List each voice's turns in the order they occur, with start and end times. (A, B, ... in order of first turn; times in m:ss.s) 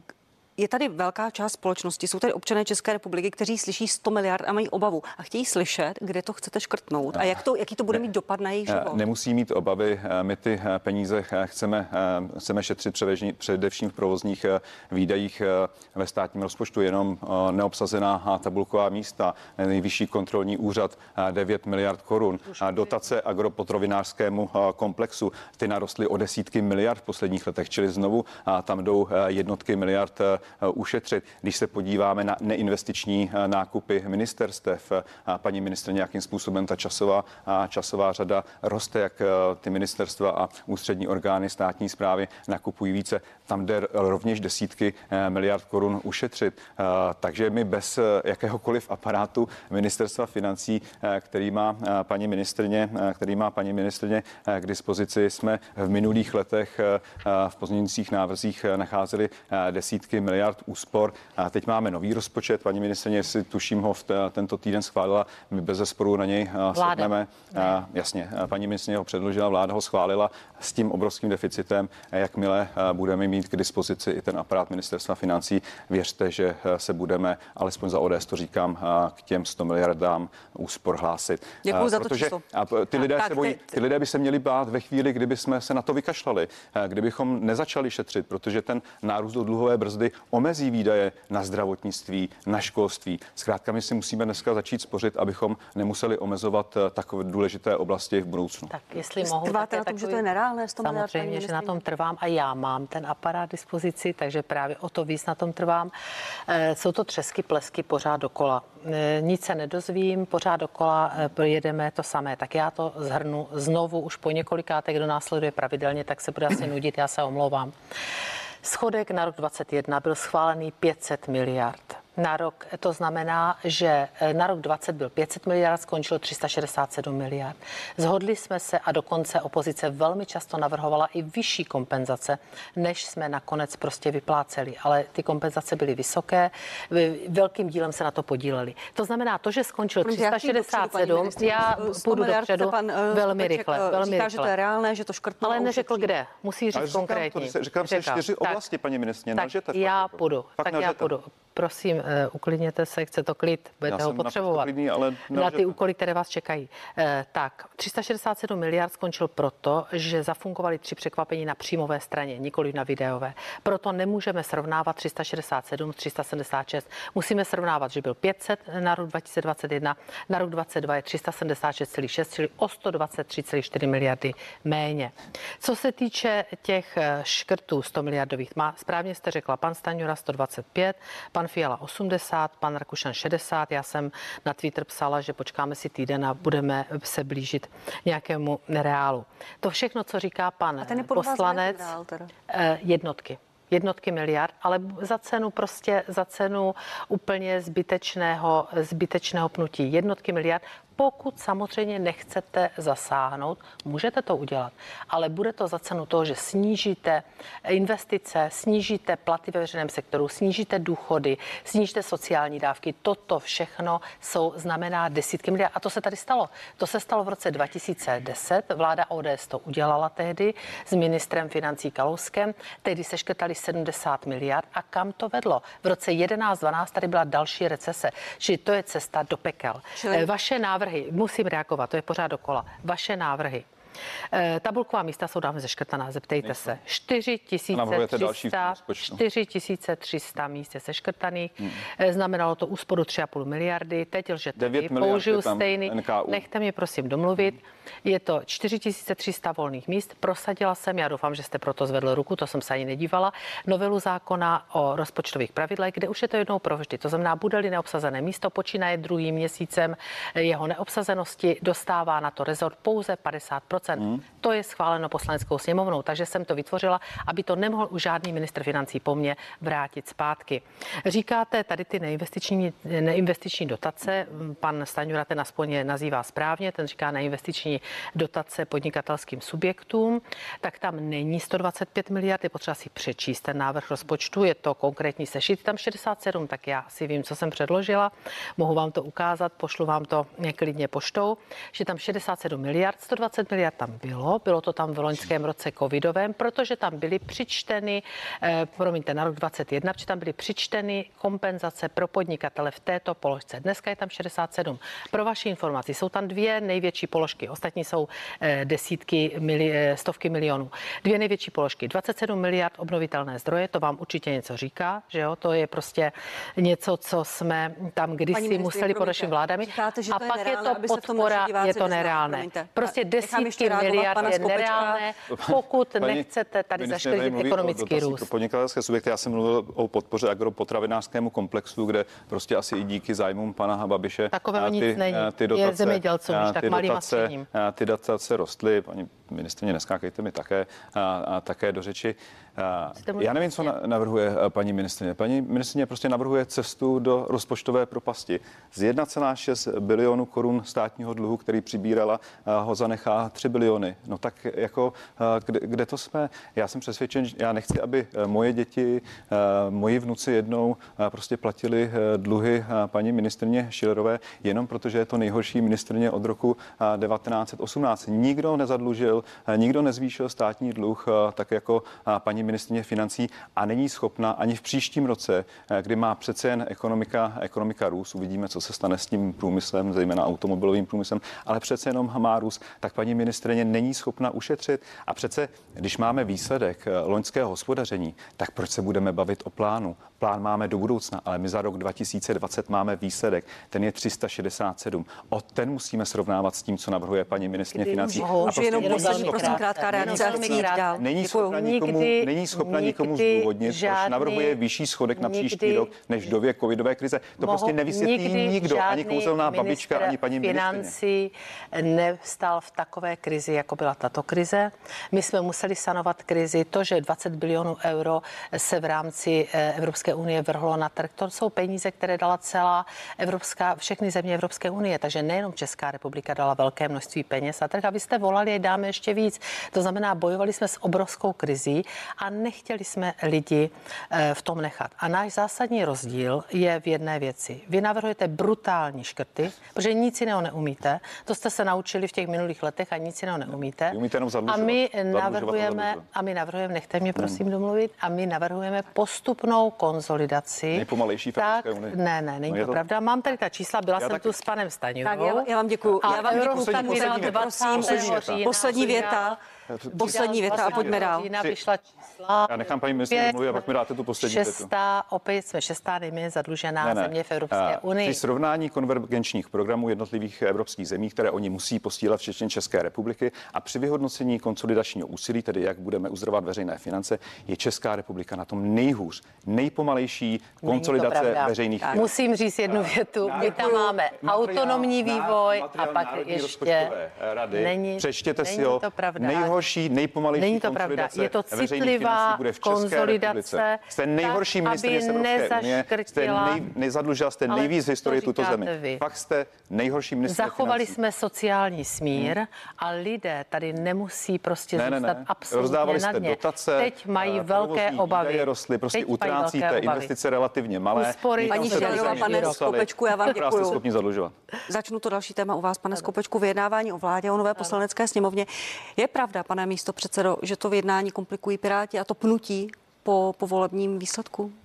0:00.6-0:09.0 A
0:08.7-1:38.7 B
1:06.7-1:07.1 C
1:21.6-1:22.4 A
1:23.0-1:23.7 A
1:38.7-1:40.2 C
1:39.2-1:41.8 A
1:40.8-1:45.9 C
1:46.5-1:57.7 C
1:58.6-2:24.5 C
2:20.0-2:26.1 A
2:25.4-2:28.6 C
2:26.7-2:31.1 B
2:29.4-2:34.7 C
2:33.9-2:35.8 B
2:35.3-3:11.9 C
3:10.8-3:12.3 A
3:12.5-3:53.6 C
3:50.0-3:50.3 A
3:54.3-5:28.3 C
3:57.7-3:59.2 B
4:04.6-4:06.4 B
5:18.3-5:25.0 A
5:25.3-6:50.9 B
5:34.3-5:37.4 C
5:43.0-5:43.3 C
6:37.8-6:44.6 C
6:38.2-6:41.1 A
6:45.1-6:45.9 C
6:47.4-7:35.5 C
7:23.9-7:26.0 B
7:30.7-7:32.0 B
7:32.5-7:32.8 B
7:34.0-7:34.3 B
7:35.0-7:39.4 A
7:36.0-7:39.0 B
7:36.0-7:39.4 C
7:39.7-7:41.6 B
7:39.9-7:43.6 C
7:39.9-7:41.3 A
7:42.5-7:44.7 B
7:44.2-7:48.2 C
7:46.8-8:02.1 B
8:00.6-8:06.9 C
8:02.7-8:21.0 B
8:07.5-8:09.5 C
8:10.3-8:16.6 C
8:17.5-8:19.0 C
8:20.2-8:30.1 C
8:24.8-8:34.3 B
8:30.9-8:32.6 C
8:31.4-8:33.8 A
8:34.7-8:44.5 A